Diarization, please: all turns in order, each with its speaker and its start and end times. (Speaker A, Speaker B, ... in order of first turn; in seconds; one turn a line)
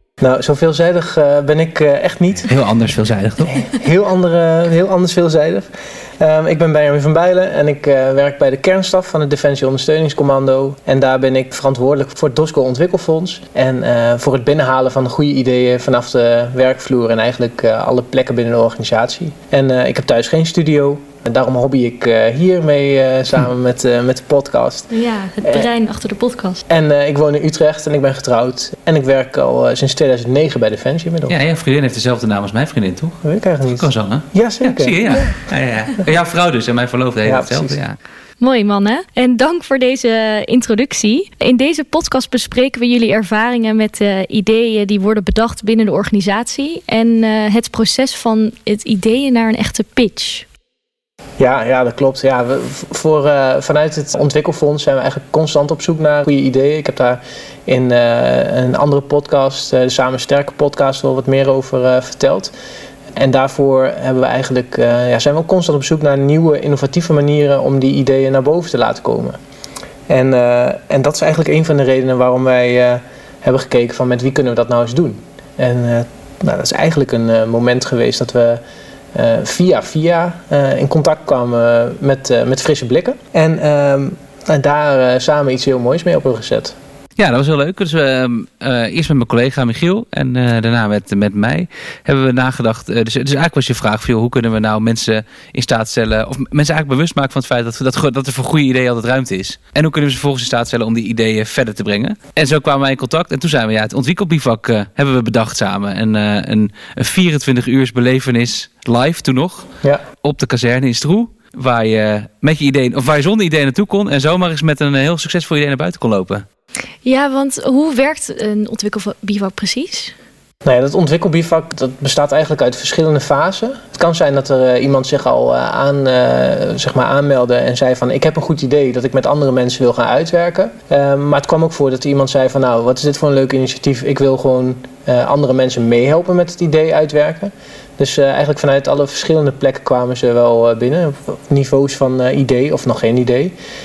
Speaker A: 0.2-2.5
Speaker B: 2.5-3.6
Speaker A: 3.5-5.7
Speaker A: 6.2-24.9
Speaker C: 24.9-26.6
Speaker A: 25.4-25.7
Speaker A: 26.7-31.4
Speaker B: 31.3-38.0
Speaker A: 33.2-35.4
Speaker A: 37.2-37.8
Speaker C: 38.4-50.5
Speaker A: 51.4-62.5
Speaker A: 63.2-69.4
Speaker A: 70.1-78.6
Speaker A: 79.1-86.8
Speaker B: 87.2-109.7
Speaker B: 110.2-116.5
Speaker C: 117.0-120.1
Speaker A: 120.6-143.5